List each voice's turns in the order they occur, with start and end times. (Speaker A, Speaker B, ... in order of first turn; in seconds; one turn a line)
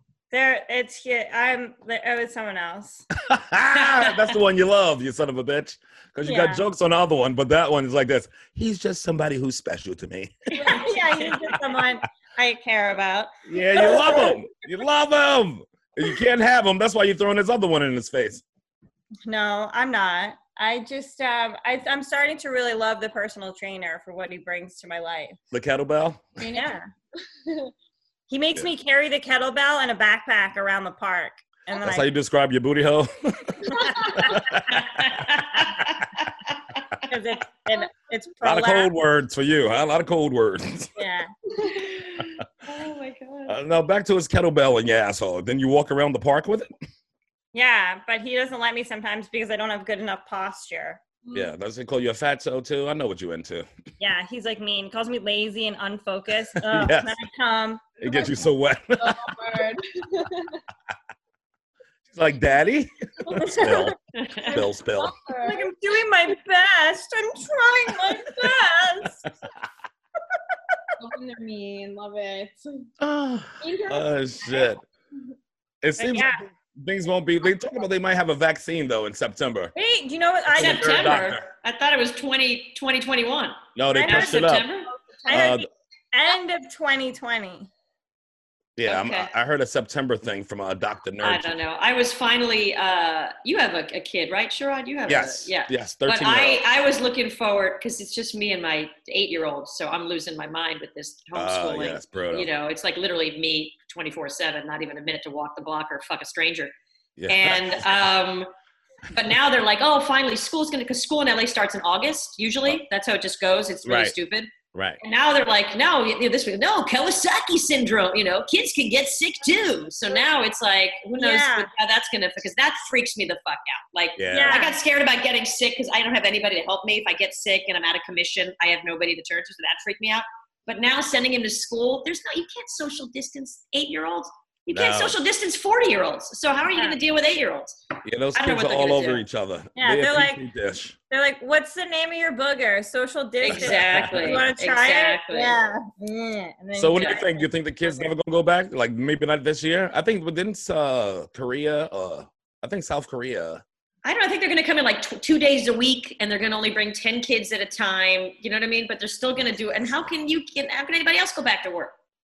Speaker A: 0.3-3.1
Speaker B: 3.2-10.7
Speaker C: 3.9-4.2
Speaker A: 6.2-6.7
Speaker C: 10.5-11.5
Speaker D: 10.5-11.3
Speaker A: 10.7-14.4
Speaker B: 13.5-18.4
Speaker D: 13.8-14.3
Speaker A: 19.3-25.4
Speaker B: 25.5-26.4
Speaker D: 26.4-26.8
Speaker A: 26.5-26.9
Speaker D: 27.5-27.7
Speaker A: 28.3-32.1
Speaker B: 31.8-34.6
Speaker A: 33.6-34.6
Speaker C: 34.7-35.9
Speaker A: 37.1-38.9
Speaker B: 38.4-41.0
Speaker A: 41.0-41.3
Speaker D: 41.6-41.8
Speaker C: 41.7-43.6
Speaker B: 43.5-46.7
Speaker A: 47.5-51.0
Speaker D: 51.2-51.5
Speaker B: 51.3-53.7
Speaker A: 54.0-57.9
Speaker B: 56.6-57.1
Speaker B: 58.0-59.6
Speaker D: 58.0-60.6
Speaker B: 62.1-65.2
Speaker D: 63.3-63.7
Speaker A: 63.4-63.9
Speaker C: 64.2-64.5
Speaker D: 64.4-65.7
Speaker A: 65.4-69.2
Speaker D: 71.0-72.9
Speaker B: 73.0-74.8
Speaker D: 73.6-74.8
Speaker B: 75.8-79.7
Speaker A: 76.0-76.4
Speaker A: 79.8-81.3
Speaker C: 80.5-84.9
Speaker B: 80.5-81.4
Speaker B: 83.8-84.7
Speaker A: 83.9-84.6
Speaker D: 84.8-85.6
Speaker A: 85.3-87.7
Speaker B: 85.3-85.7
Speaker B: 88.8-91.6
Speaker C: 88.9-89.3
Speaker C: 91.2-106.7
Speaker B: 95.1-96.6
Speaker B: 101.3-102.5
Speaker B: 107.2-107.9
Speaker C: 107.3-108.5
Speaker C: 109.1-137.8
Speaker B: 113.8-114.1
Speaker B: 114.7-115.0
Speaker A: 121.2-121.7
Speaker B: 124.2-124.6
Speaker A: 124.3-124.8
Speaker B: 134.7-135.2
Speaker B: 138.1-141.0
Speaker C: 138.3-139.2
Speaker A: 139.8-140.4
Speaker A: 141.1-148.1
Speaker C: 143.4-145.6
Speaker B: 143.5-144.5
Speaker B: 146.7-153.6
Speaker C: 154.0-161.9